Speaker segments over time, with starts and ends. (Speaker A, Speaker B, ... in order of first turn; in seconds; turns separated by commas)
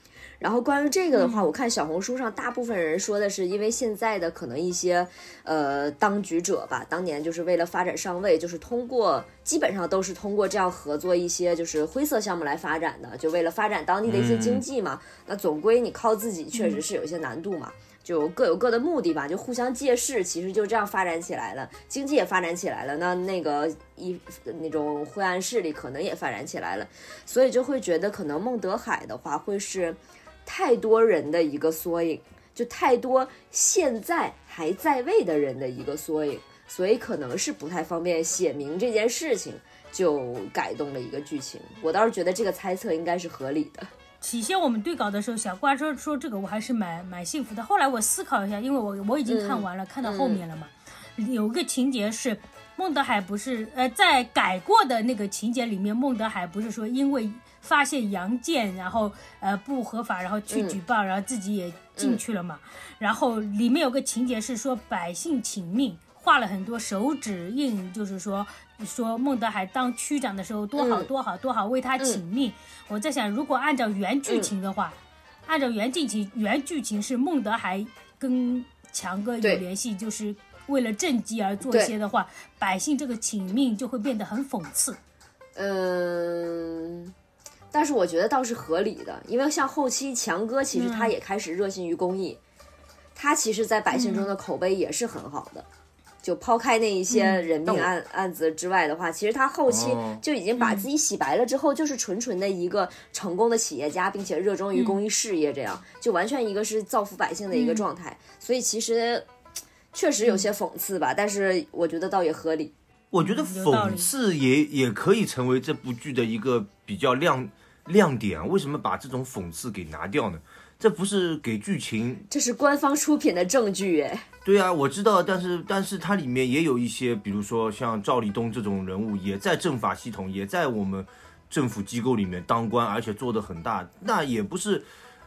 Speaker A: 0.4-43.9, Speaker B: 1.1-1.5, Speaker C: 14.1-14.6, Speaker B: 16.5-16.8, Speaker B: 44.2-75.0, Speaker A: 49.3-50.4, Speaker A: 60.5-60.8, Speaker A: 70.8-71.1, Speaker B: 75.5-85.0, Speaker A: 81.7-81.9, Speaker A: 85.6-87.1, Speaker A: 87.7-92.4, Speaker B: 90.7-91.2, Speaker A: 93.2-95.7, Speaker B: 93.9-94.3, Speaker A: 96.2-109.3, Speaker B: 97.1-97.5, Speaker C: 99.7-100.2, Speaker B: 100.6-100.9, Speaker B: 104.8-105.0, Speaker B: 107.5-107.8, Speaker A: 109.9-112.7, Speaker C: 113.1-122.3, Speaker B: 113.2-114.1, Speaker A: 122.3-124.2, Speaker C: 124.5-134.9